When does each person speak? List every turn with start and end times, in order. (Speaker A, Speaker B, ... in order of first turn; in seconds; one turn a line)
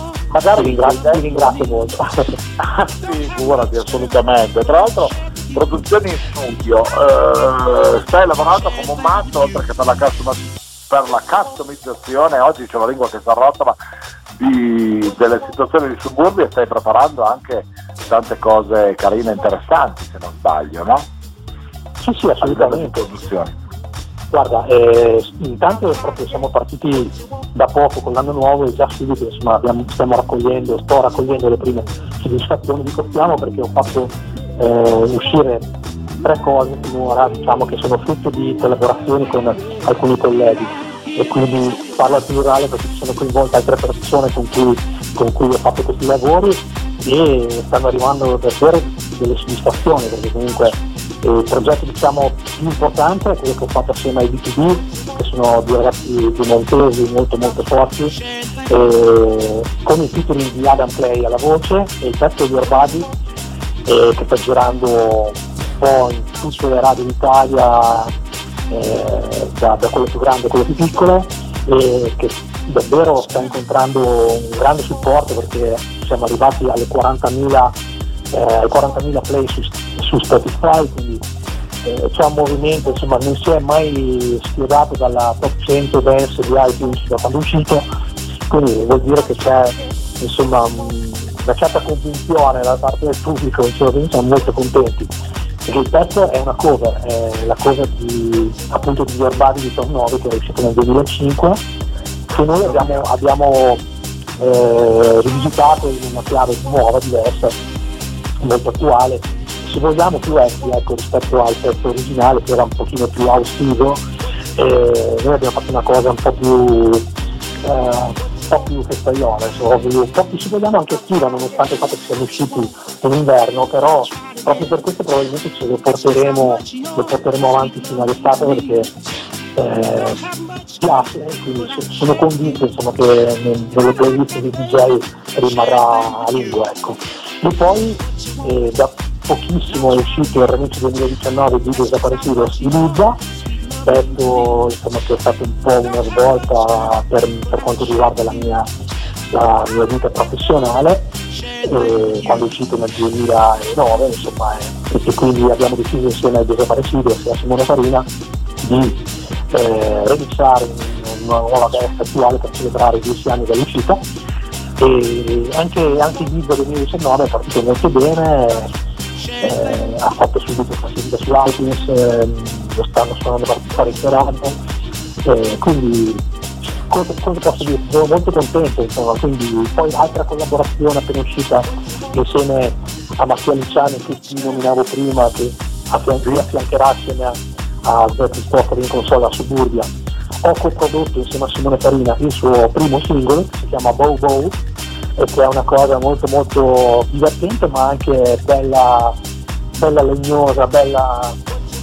Speaker A: 0.3-1.5
Speaker B: 0.6-2.4
Speaker A: 2.6-13.8
Speaker A: 14.3-21.1
Speaker B: 22.0-23.1
Speaker A: 22.4-23.6
Speaker B: 24.3-35.7
Speaker B: 36.2-63.1
Speaker B: 63.9-68.1
Speaker B: 68.7-77.7
Speaker B: 78.3-81.2
Speaker B: 81.8-87.9
Speaker B: 88.5-95.1
Speaker B: 95.7-101.6
Speaker B: 102.3-103.8
Speaker A: 102.7-103.0
Speaker B: 104.4-107.6
Speaker B: 108.4-114.0
Speaker B: 114.6-117.1
Speaker B: 117.6-128.9
Speaker B: 129.6-130.2
Speaker B: 130.8-143.2
Speaker B: 143.9-148.7
Speaker B: 149.3-151.1
Speaker B: 151.6-158.1
Speaker B: 158.6-164.0
Speaker B: 164.8-168.7
Speaker B: 169.4-174.6
Speaker B: 175.2-176.2
Speaker B: 176.9-189.9
Speaker B: 190.4-194.6
Speaker B: 195.2-199.2
Speaker B: 199.8-201.4